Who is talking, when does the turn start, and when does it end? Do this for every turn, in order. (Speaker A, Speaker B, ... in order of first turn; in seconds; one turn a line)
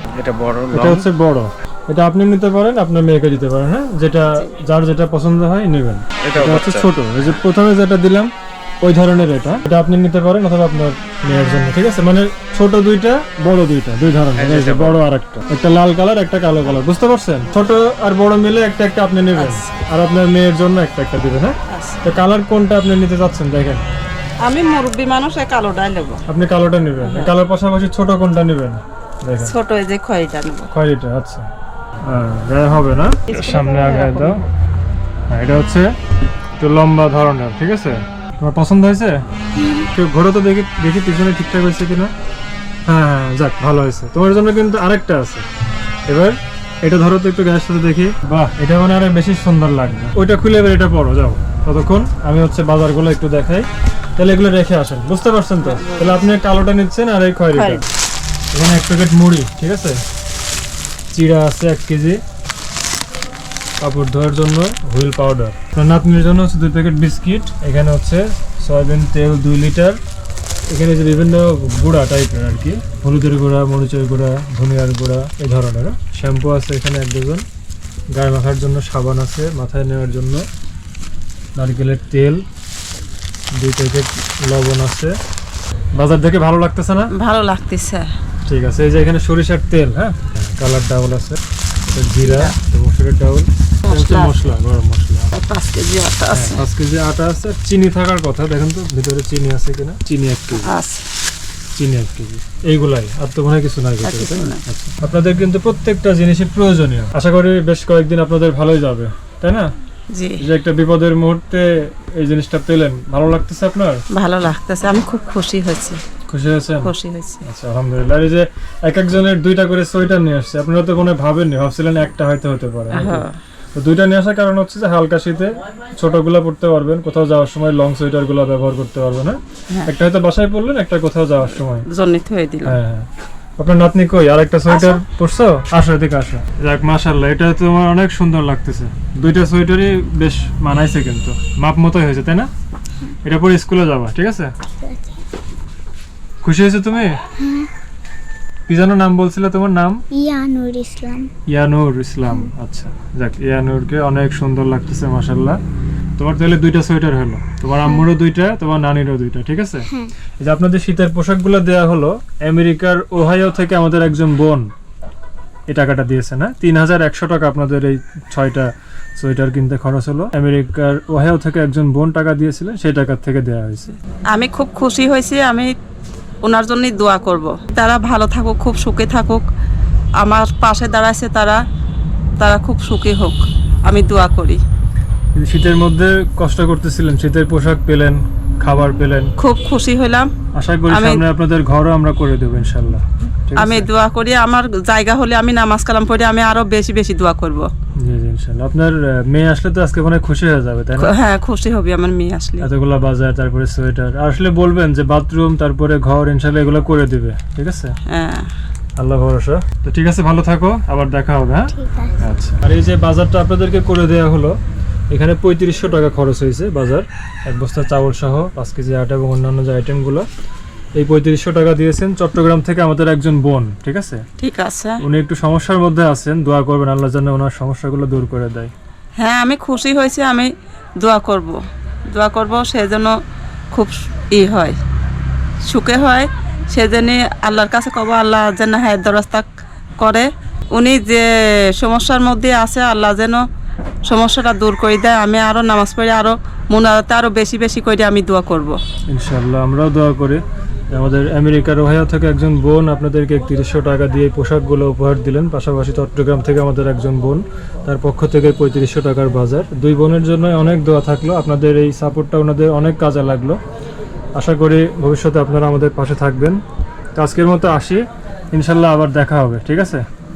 Speaker A: 0.1-1.0
Speaker B: 0.7-23.8
Speaker A: 6.2-6.9
Speaker A: 14.4-15.0
Speaker C: 19.4-19.8
Speaker C: 21.7-22.1
Speaker C: 24.4-26.2
Speaker B: 26.3-29.6
Speaker C: 27.0-27.4
Speaker C: 29.4-30.7
Speaker B: 30.7-31.5
Speaker B: 32.0-34.4
Speaker C: 33.3-34.5
Speaker B: 35.3-35.9
Speaker B: 36.6-39.2
Speaker B: 39.7-42.1
Speaker B: 42.9-45.5
Speaker B: 46.1-57.8
Speaker C: 55.6-56.3
Speaker C: 57.5-57.9
Speaker B: 58.5-60.0
Speaker B: 61.1-62.2
Speaker B: 63.8-70.0
Speaker B: 70.7-77.4
Speaker B: 78.1-80.4
Speaker B: 81.6-82.4
Speaker B: 83.5-85.1
Speaker B: 86.0-87.1
Speaker C: 87.2-88.1
Speaker B: 88.5-95.3
Speaker C: 92.2-92.6
Speaker C: 93.9-94.5
Speaker C: 95.3-96.7
Speaker B: 96.3-100.7
Speaker C: 100.6-101.0
Speaker B: 101.8-109.7
Speaker C: 104.0-104.6
Speaker C: 110.1-110.4
Speaker B: 110.4-114.0
Speaker C: 114.1-116.0
Speaker B: 116.3-116.9
Speaker C: 116.8-117.4
Speaker B: 117.4-131.9
Speaker C: 122.9-123.4
Speaker C: 131.9-132.8
Speaker B: 132.7-142.5
Speaker C: 134.7-135.0
Speaker B: 143.2-144.5
Speaker D: 144.7-145.2
Speaker B: 146.4-147.2
Speaker D: 147.4-147.7
Speaker B: 148.7-150.0
Speaker D: 150.1-151.3
Speaker B: 151.5-155.6
Speaker B: 156.2-164.7
Speaker B: 165.7-173.9
Speaker C: 174.3-175.7
Speaker C: 176.4-179.4
Speaker C: 180.2-181.6
Speaker C: 182.4-184.6
Speaker B: 185.4-189.3
Speaker C: 189.4-190.3
Speaker B: 190.5-193.9
Speaker C: 190.9-191.2
Speaker C: 193.6-197.7
Speaker B: 198.0-201.1
Speaker C: 201.0-202.7
Speaker B: 202.6-207.9
Speaker C: 208.1-208.5
Speaker B: 209.0-214.6
Speaker D: 211.8-212.2
Speaker B: 215.1-220.3
Speaker B: 221.0-224.2
Speaker C: 224.4-225.0
Speaker B: 225.0-228.7
Speaker C: 229.2-231.6
Speaker C: 232.1-233.2
Speaker C: 233.7-234.8
Speaker C: 235.7-239.5
Speaker C: 240.0-243.4
Speaker C: 244.1-248.8
Speaker B: 249.1-263.6
Speaker B: 264.4-266.6
Speaker B: 267.2-270.0